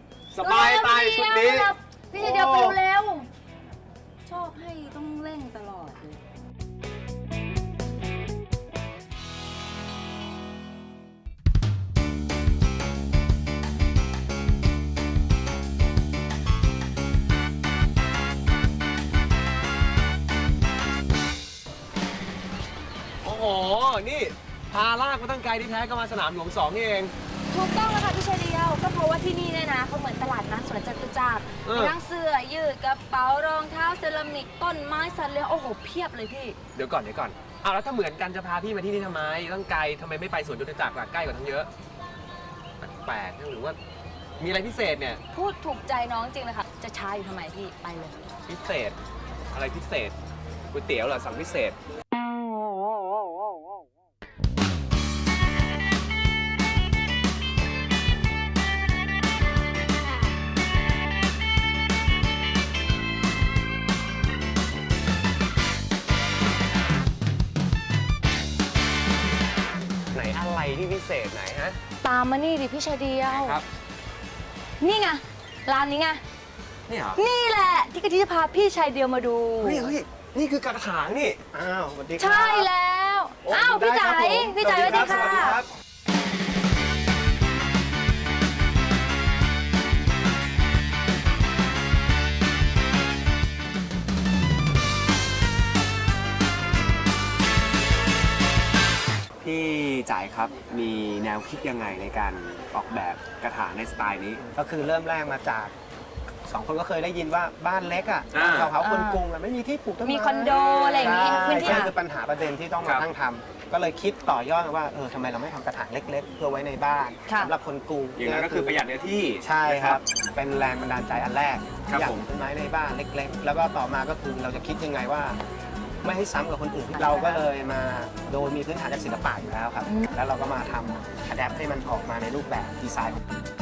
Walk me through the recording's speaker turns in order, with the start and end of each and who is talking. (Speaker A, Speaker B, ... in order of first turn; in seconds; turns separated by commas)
Speaker A: 0.3-2.8, Speaker B: 0.4-3.3, Speaker B: 4.3-6.2, Speaker A: 23.2-27.1, Speaker B: 27.5-36.6, Speaker A: 31.6-32.0, Speaker A: 36.8-41.7, Speaker A: 42.8-43.8, Speaker A: 44.4-45.2, Speaker B: 45.3-48.2, Speaker A: 48.5-49.0, Speaker A: 49.5-50.1, Speaker A: 50.7-51.8, Speaker A: 70.1-71.8, Speaker B: 72.0-73.6, Speaker A: 73.3-73.7, Speaker B: 74.8-76.2, Speaker A: 76.9-77.2, Speaker B: 77.2-79.9, Speaker A: 79.6-81.5, Speaker C: 81.5-82.7, Speaker B: 82.2-85.6, Speaker C: 83.5-83.8, Speaker A: 83.7-85.7, Speaker A: 99.4-104.4, Speaker C: 104.5-105.7, Speaker C: 106.5-118.8, Speaker A: 108.3-108.7, Speaker B: 108.8-109.2, Speaker B: 110.0-111.9, Speaker A: 110.5-111.9, Speaker B: 117.3-117.5, Speaker A: 118.2-120.0, Speaker C: 119.4-125.4, Speaker A: 121.9-122.3, Speaker C: 126.0-133.2, Speaker B: 127.0-127.5, Speaker B: 129.8-130.1